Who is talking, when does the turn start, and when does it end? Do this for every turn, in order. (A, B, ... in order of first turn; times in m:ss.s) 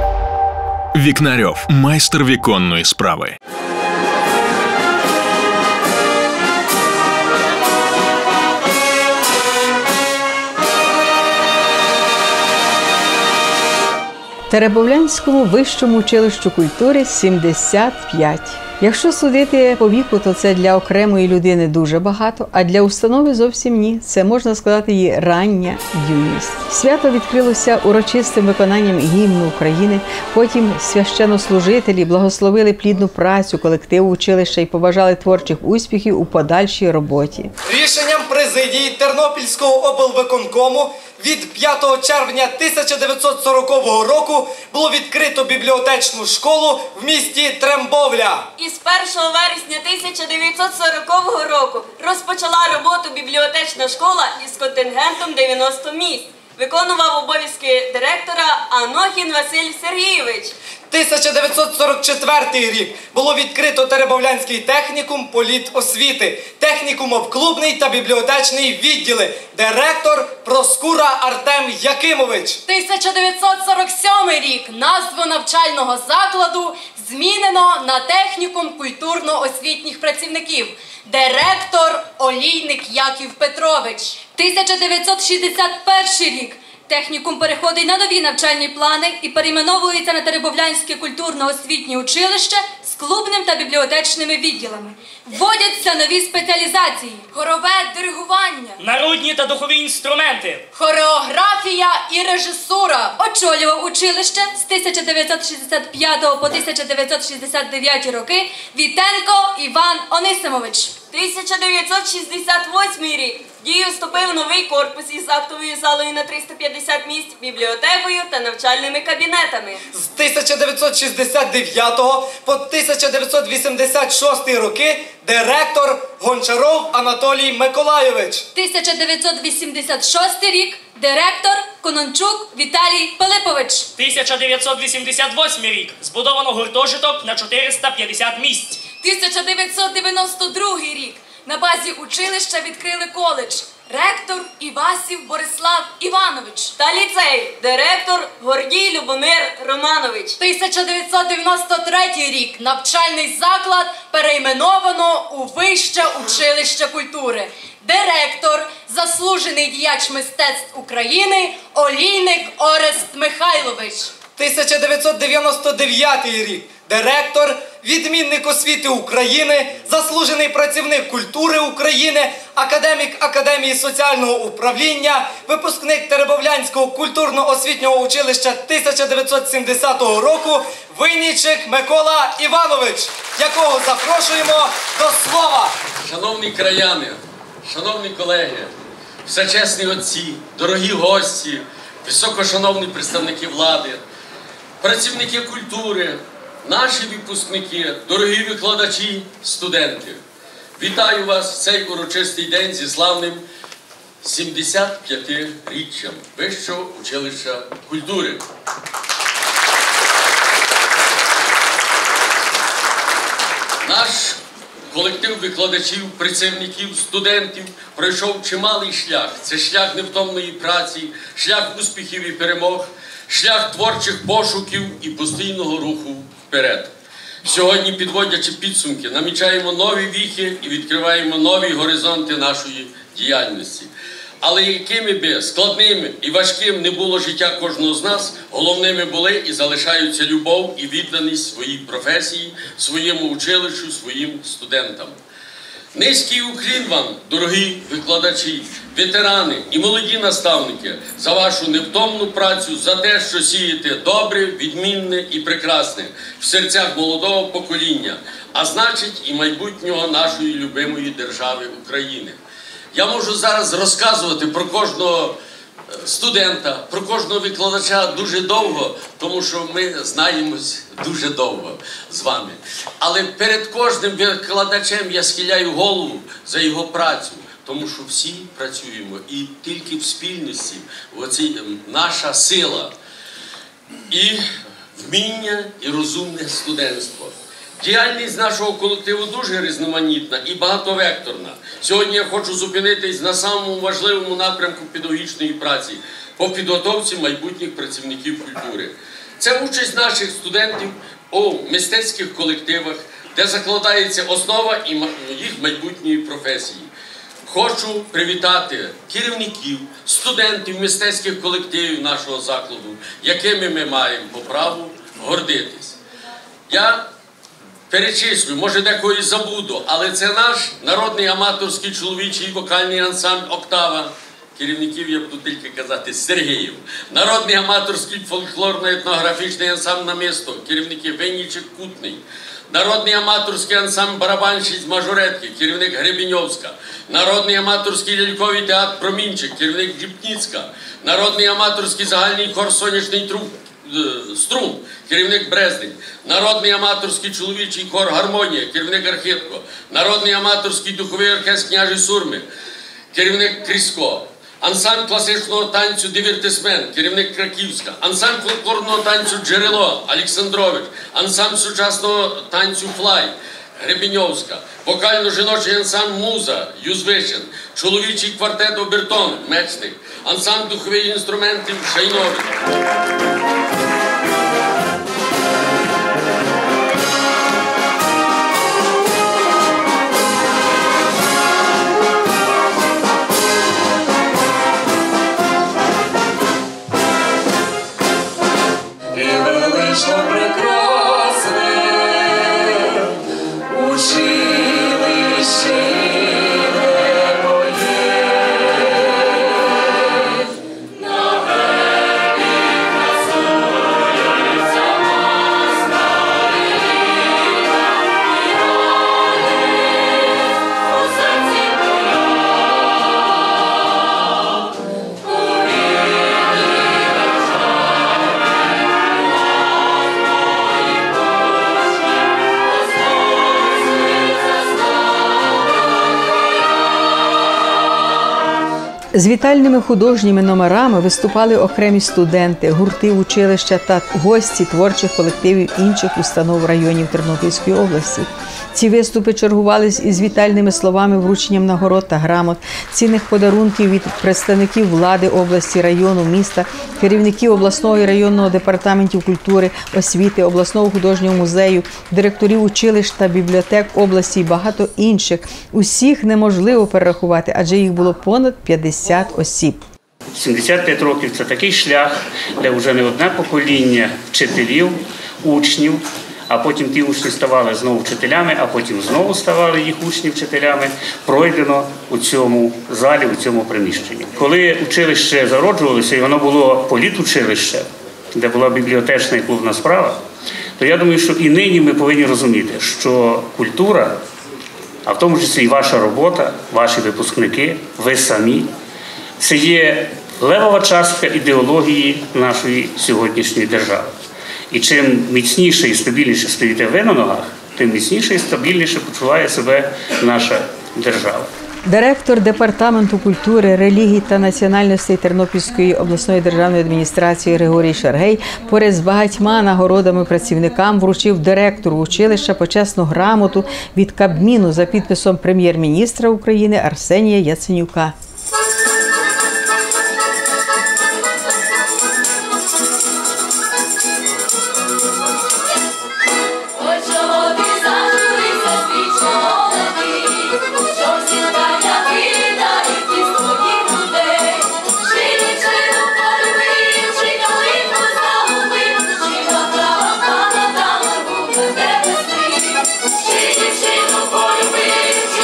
0:00.9-0:03.4 A
0:14.5-0:37.5 B
0:37.6-0:48.5 C
0:48.6-1:00.6 D
1:00.9-1:12.6 C
1:12.7-1:38.8 E
1:38.8-1:40.6 F
1:40.7-1:51.0 E
1:51.1-1:59.8 D
1:59.9-2:08.5 C
2:08.6-2:13.9 E
2:14.0-2:18.8 F
2:18.8-2:26.7 E
2:26.8-2:30.4 D
2:30.4-2:44.2 E
2:44.3-3:05.8 C
3:06.0-3:08.7 G
3:09.2-3:14.0 G
3:14.8-3:20.2 G
3:20.8-3:23.4 G
3:24.2-3:28.4 G
3:33.8-3:34.4 G
3:34.9-3:46.9 G
3:47.4-3:53.9 G
3:54.4-4:05.2 G
4:05.9-4:22.4 G
4:22.9-4:25.4 G
4:25.9-4:42.9 G
4:44.1-5:06.9 G
5:07.5-5:16.0 G
5:16.7-5:17.1 G
5:17.9-5:52.4 G
5:53.1-6:12.5 G
7:09.1-7:39.8 B
7:40.3-8:00.2 H
8:00.8-8:04.2 H
8:05.1-8:08.7 H
8:09.4-8:14.1 H
8:14.7-8:21.5 H
8:21.9-8:38.2 B
8:46.9-9:02.8 E